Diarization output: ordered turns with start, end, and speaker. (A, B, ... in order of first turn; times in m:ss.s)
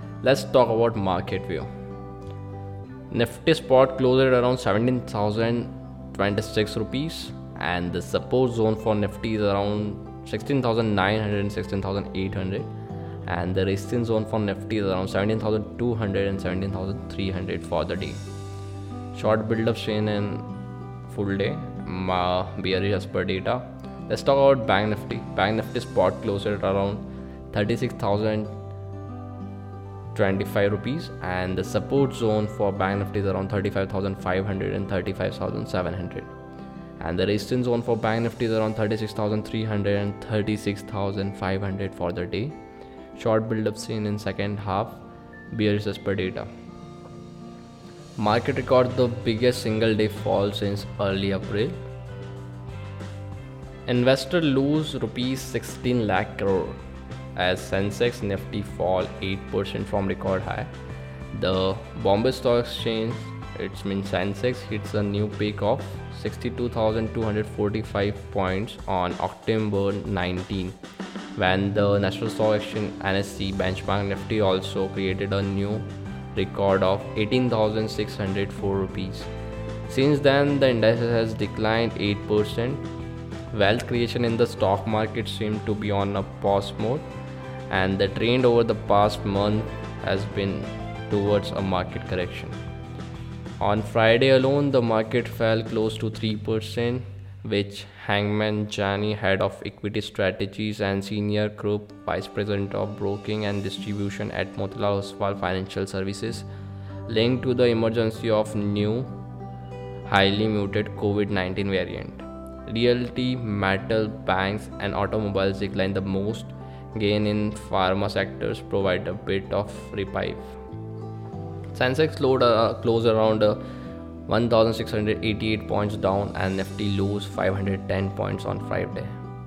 0:00.2-0:01.7 A
0:03.1-0:12.7 A
0:13.3-0:18.2 A
0:19.1-0:20.5 A
0:21.1-0:28.6 A
0:30.1-0:36.3 A
0:37.0-0:42.6 A
0:43.2-0:46.5 A
0:48.2-0:51.8 A
0:53.9-0:56.8 A
0:57.4-1:00.7 A
1:01.3-1:10.8 A
1:11.4-1:19.3 A
1:19.9-1:22.8 A
1:23.5-1:27.1 A
1:27.7-1:32.6 A
1:33.6-1:46.5 A
1:47.1-1:49.1 A
1:50.1-2:00.6 A
2:01.7-2:03.6 A
2:04.3-2:09.2 A